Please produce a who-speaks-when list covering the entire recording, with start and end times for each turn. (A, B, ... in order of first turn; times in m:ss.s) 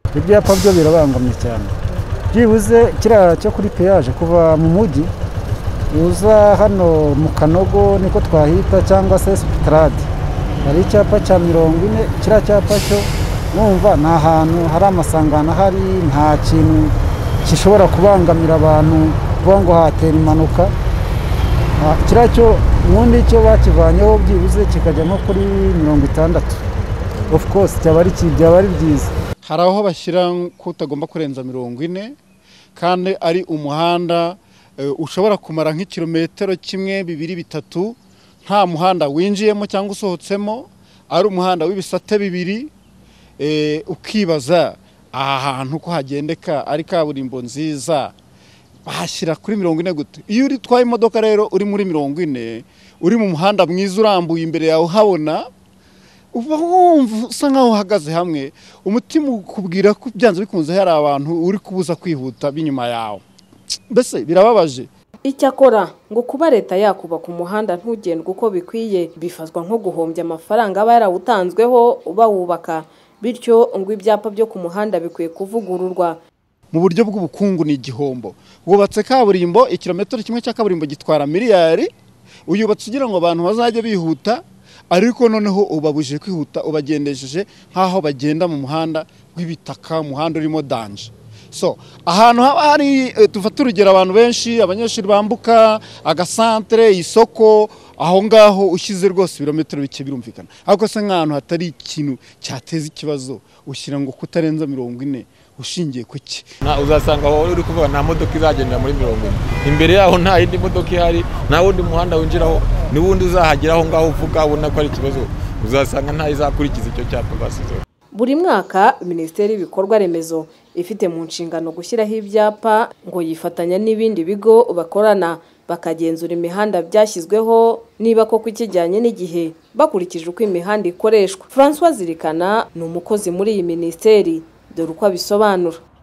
0:00.1-0:01.7 A
0:02.3-0:05.1 A
0:05.9-0:10.1 A
0:10.6-0:20.7 A
0:21.8-0:26.6 A
0:27.3-0:29.1 A
0:29.4-0:32.1 B
0:32.8-0:42.7 B
0:43.4-0:48.1 B
0:48.8-0:55.5 B
0:56.3-1:03.2 B
1:03.9-1:04.9 B
1:05.2-1:16.2 C
1:16.7-1:21.9 B
1:22.5-1:46.5 B
1:46.6-1:57.8 D
1:58.1-2:15.8 C